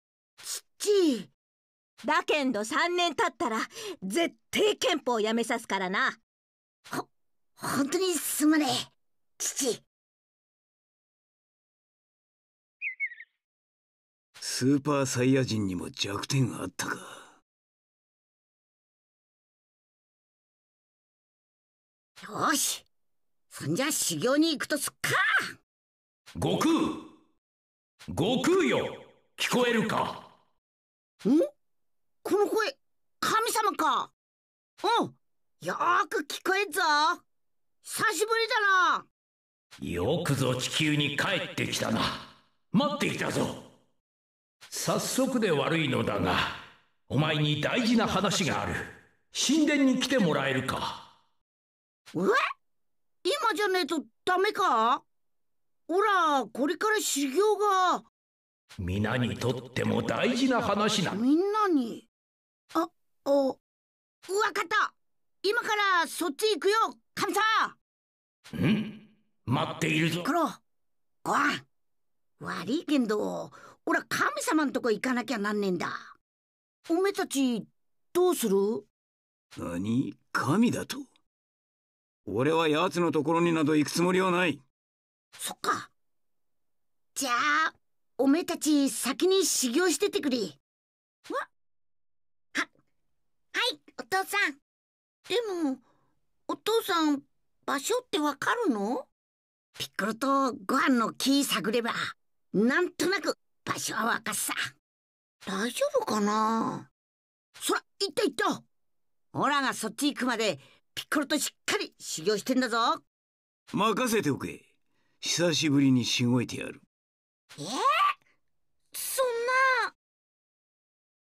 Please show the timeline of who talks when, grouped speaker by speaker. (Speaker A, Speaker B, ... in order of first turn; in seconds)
Speaker A: 0.4-1.3, 6.9-9.8, 22.2-22.9, 23.5-25.5, 32.2-34.1, 34.8-37.2, 37.8-39.1, 52.1-52.4, 53.2-55.0, 55.9-58.0, 61.1-62.0, 62.7-63.6, 64.3-67.8, 70.2-70.6, 71.2-71.6, 72.4-76.1, 76.9-78.9, 85.4-85.9, 87.1-90.6, 93.5-94.6, 95.3-95.8, 96.5-99.1, 99.8-104.6, 105.5-106.9, 107.6-108.6, 109.3-113.0, 117.6-117.8, 118.9-119.9
Speaker B: 2.0-6.2
Speaker C: 14.4-17.2, 79.6-81.0, 82.2-84.6, 113.7-114.6, 115.2-116.8
Speaker D: 26.3-27.0, 28.1-30.2, 39.8-42.2, 42.7-43.6, 44.7-46.6, 47.1-51.0, 58.8-61.2, 68.5-68.9, 69.5-70.2